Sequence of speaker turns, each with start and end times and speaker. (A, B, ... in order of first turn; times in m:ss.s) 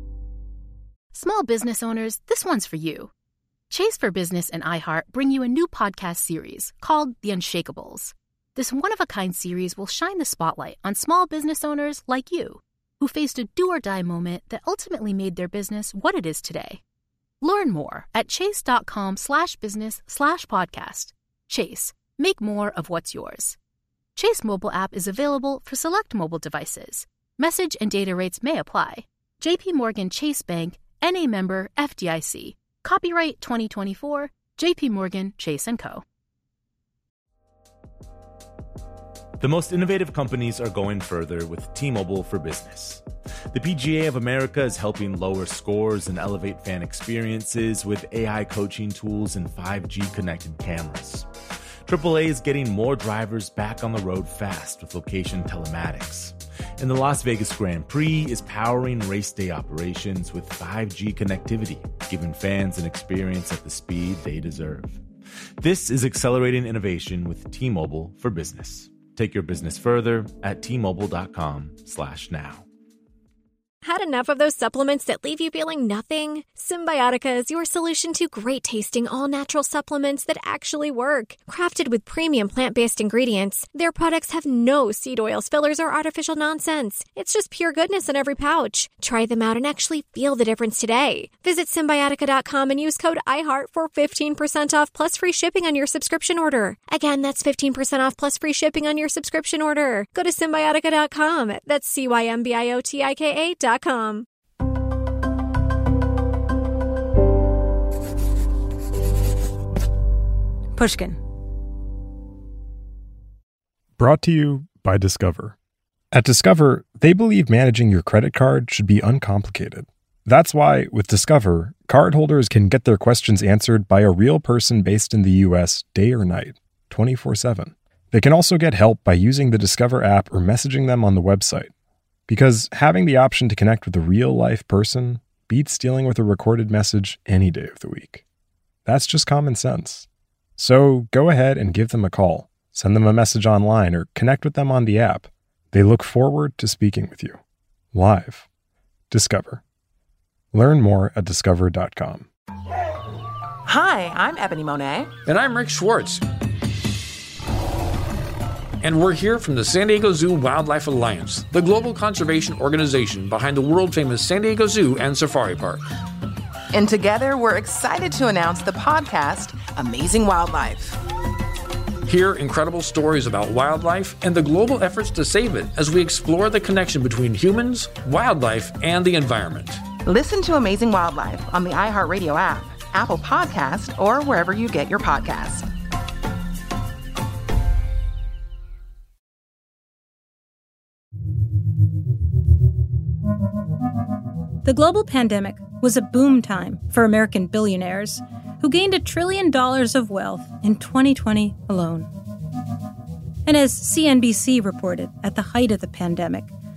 0:01.1-0:03.1 A
0:03.7-0:16.8 A
0:17.4-0:23.6 A
0:24.2-0:36.0 A
0:39.4-0:51.3 B
0:51.9-1:05.0 B
1:05.6-1:12.6 B
1:13.8-1:44.3 C
1:50.8-1:51.2 D
1:54.0-1:55.6 E
1:56.1-2:11.7 E
2:12.3-2:18.2 E
2:18.8-2:20.1 E
2:20.6-2:27.4 E
2:27.9-2:28.5 E
2:29.1-2:29.6 E
2:30.5-2:32.3 E
2:33.7-2:35.1 F
2:35.3-2:36.2 G
2:38.8-2:45.8 G
2:46.7-2:51.0 F
2:52.1-2:59.8 G
3:00.0-3:05.7 F
3:14.6-3:22.1 D
3:23.5-3:26.5 D